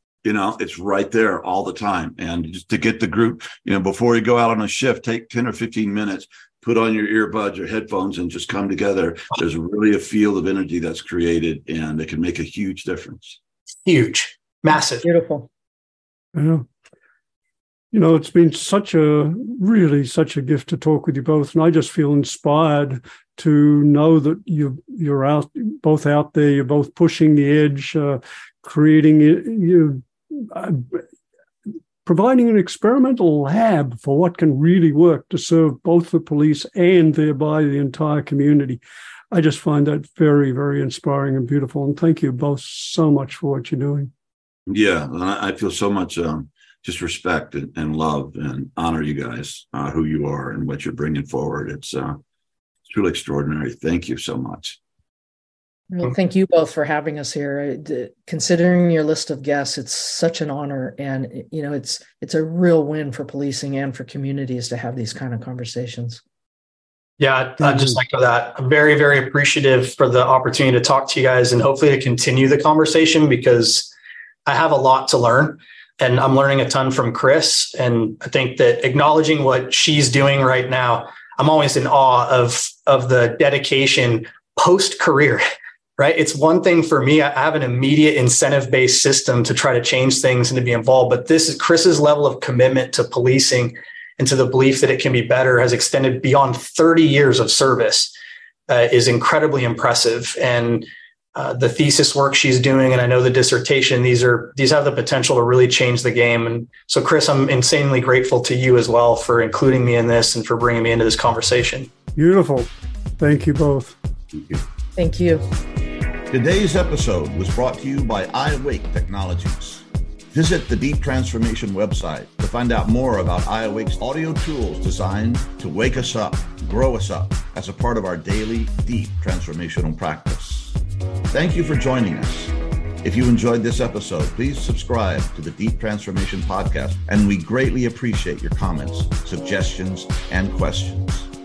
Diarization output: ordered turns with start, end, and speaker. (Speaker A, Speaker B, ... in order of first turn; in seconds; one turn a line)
Speaker A: 0.2-13.4
Speaker B: 13.8-15.1
Speaker C: 15.0-15.5
Speaker D: 16.3-16.7
Speaker D: 17.9-31.0
Speaker D: 32.0-38.8
Speaker D: 39.3-44.1
Speaker A: 44.7-52.2
Speaker A: 52.9-54.8
Speaker C: 55.9-66.2
Speaker B: 67.2-73.9
Speaker B: 74.5-85.4
Speaker B: 86.0-98.1
Speaker B: 98.7-111.9
Speaker D: 112.2-114.0
Speaker A: 114.3-114.6
Speaker C: 115.0-115.4
Speaker A: 116.3-130.8
Speaker A: 131.3-141.3